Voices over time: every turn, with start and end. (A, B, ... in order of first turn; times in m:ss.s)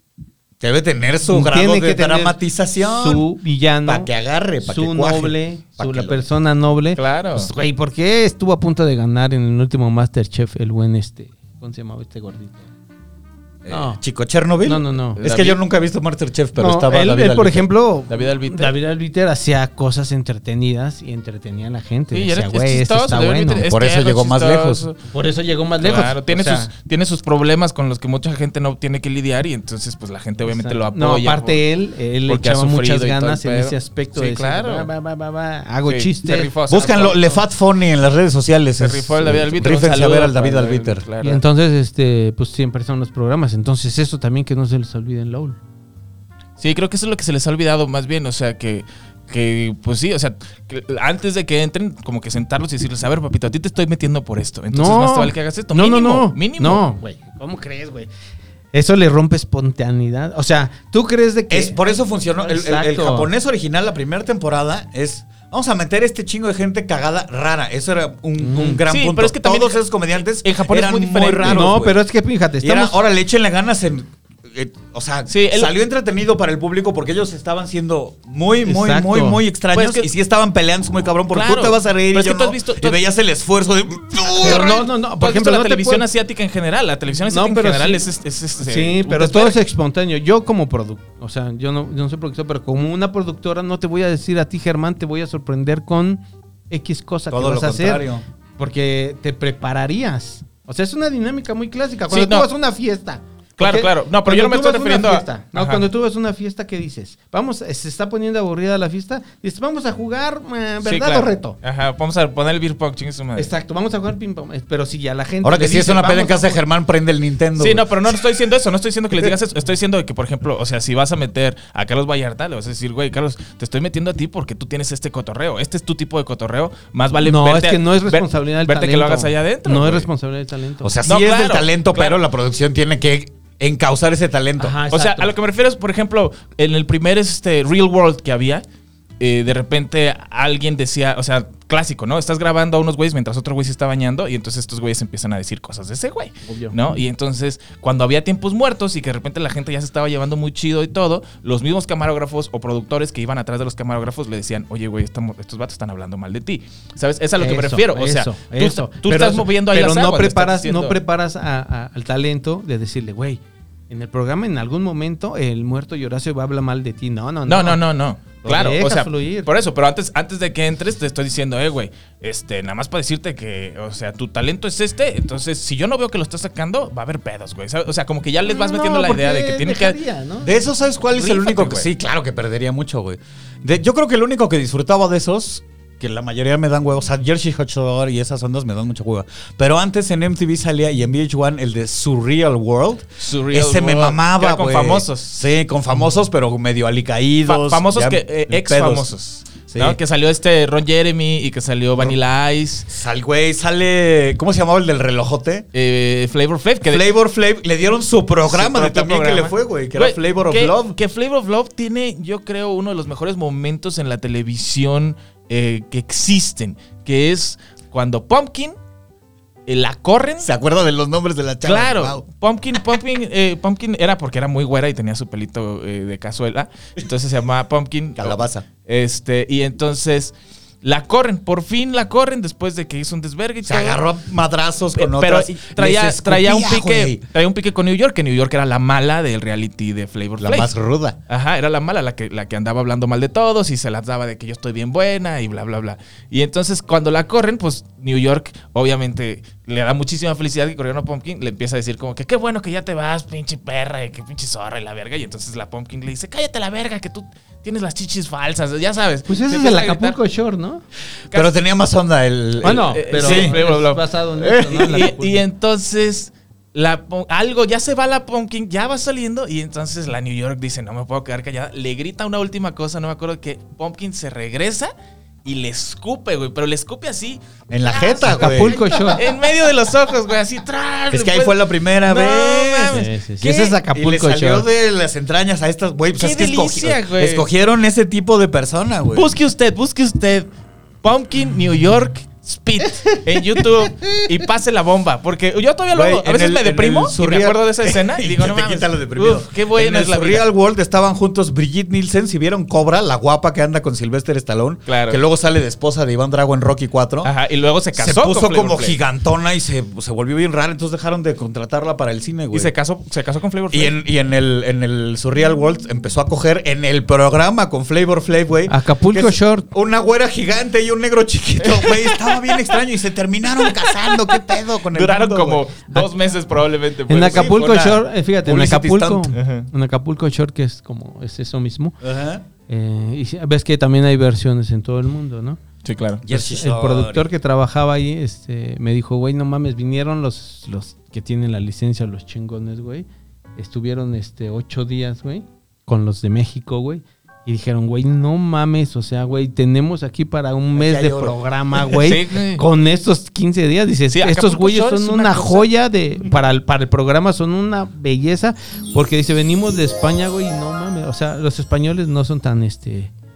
0:00.6-0:03.2 A
0:01.3-0:04.1 B
0:03.9-0:06.2 A
0:04.6-0:12.7 B
0:07.0-0:07.5 C
0:13.6-0:17.7 A
0:13.7-0:14.0 B
0:14.6-0:15.2 B
0:15.2-0:15.6 C
0:16.6-0:23.6 B
0:18.1-0:18.7 C
0:22.1-0:25.0 C
0:23.6-0:24.8 A
0:25.1-0:26.7 B
0:25.8-0:31.6 C
0:30.4-0:36.5 B
0:32.3-0:34.9 C
0:35.9-0:37.4 C
0:36.7-0:41.0 A
0:38.8-0:41.4 C
0:41.2-0:45.6 B
0:46.6-0:56.8 C
0:54.7-0:58.1 B
0:58.7-1:01.8 B
1:01.5-1:12.0 A
1:02.4-1:03.3 B
1:08.4-1:08.8 B
1:08.9-1:11.8 C
1:11.4-1:13.0 B
1:12.6-1:24.8 A
1:15.3-1:15.7 C
1:18.6-1:19.4 B
1:19.7-1:20.1 C
1:21.3-1:23.0 C
1:24.2-1:29.6 C
1:24.4-1:26.1 B
1:27.2-1:28.0 B
1:28.6-1:38.1 B
1:37.3-1:38.2 A
1:38.6-1:51.6 B
1:42.1-1:42.5 C
1:43.6-1:45.8 C
1:50.8-1:53.5 C
1:53.4-1:56.6 B
1:55.4-1:57.9 A
1:57.6-2:10.1 C
2:07.2-2:11.0 B
2:10.8-2:14.8 A
2:11.0-2:12.2 C
2:14.6-2:15.3 B
2:14.9-2:18.6 C
2:19.2-2:41.0 C
2:26.4-2:26.7 B
2:37.4-2:47.8 B
2:47.5-3:00.0 C
2:48.4-2:49.5 B
2:58.4-3:00.6 B
3:00.4-3:19.1 A
3:01.2-3:01.9 C
3:13.2-3:15.5 C
3:17.4-3:22.9 C
3:19.7-3:20.0 A
3:22.9-3:25.6 A
3:25.7-3:27.0 C
3:26.8-3:31.0 A
3:28.4-3:38.8 C
3:39.7-3:40.5 C
3:40.4-3:42.2 A
3:41.6-3:54.0 C
3:48.2-3:48.7 A
3:53.7-3:57.2 A
3:55.0-4:00.7 C
4:00.4-4:01.2 A
4:01.3-4:20.2 C
4:19.3-4:20.8 B
4:21.3-4:23.6 A
4:22.6-4:25.4 B
4:22.6-4:34.9 C
4:35.4-4:43.1 C
4:37.7-4:39.3 A
4:38.2-4:39.2 B
4:41.1-4:49.3 A
4:42.9-4:44.7 B
4:46.2-4:47.5 C
4:49.1-4:50.5 C
4:51.0-5:00.5 C
4:55.9-5:07.3 A
5:04.9-5:05.2 C
5:07.2-5:09.0 C
5:08.0-5:12.7 A
5:12.5-5:14.0 C
5:13.7-5:25.6 A
5:18.7-5:19.7 B
5:21.6-5:22.7 C
5:23.5-5:27.6 C
5:27.1-5:32.0 B
5:27.2-5:29.4 A
5:29.3-5:29.7 C
5:32.0-5:32.4 A
5:32.7-5:35.6 B
5:35.8-5:36.2 C
5:36.2-5:37.3 A
5:36.3-6:03.1 B
5:50.8-5:51.4 A
5:51.9-5:52.7 C
5:54.1-5:55.7 C